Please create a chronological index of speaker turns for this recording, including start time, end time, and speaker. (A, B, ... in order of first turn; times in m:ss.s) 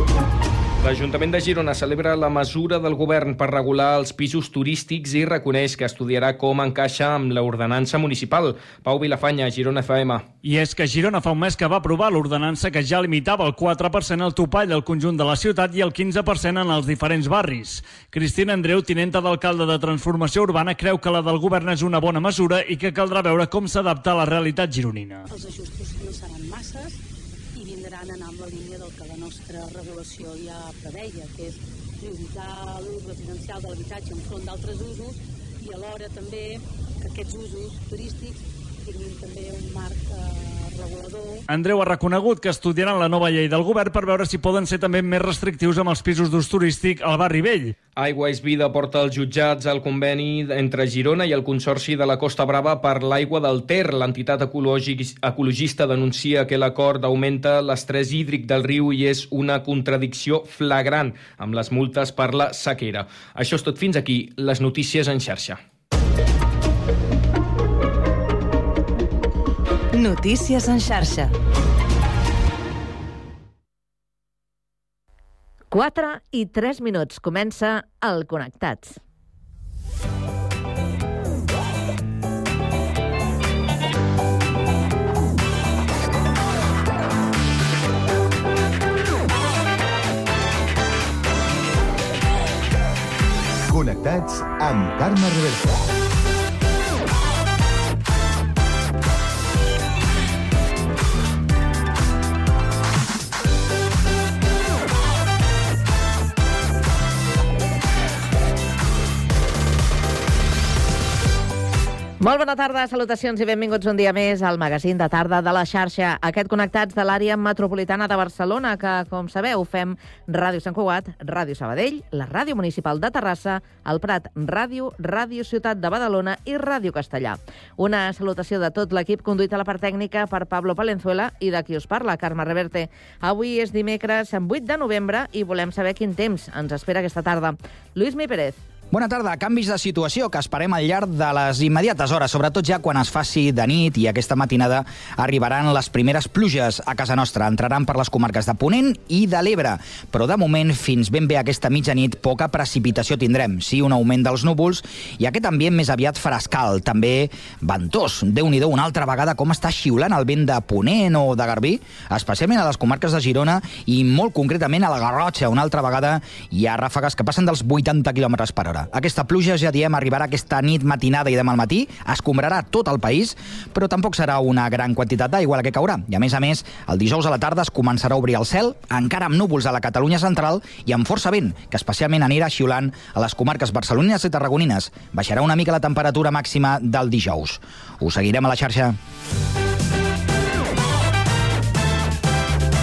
0:00.8-0:10.3 A
0:10.4-0:25.3 B
0:25.3-0:27.0 C
0:27.5-0:41.4 C
0:41.5-0:47.7 B
0:48.0-1:05.6 A
1:10.0-1:11.2 D
1:15.7-1:19.0 D
1:33.7-1:35.9 E
1:52.2-2:18.6 D
2:18.9-3:09.0 F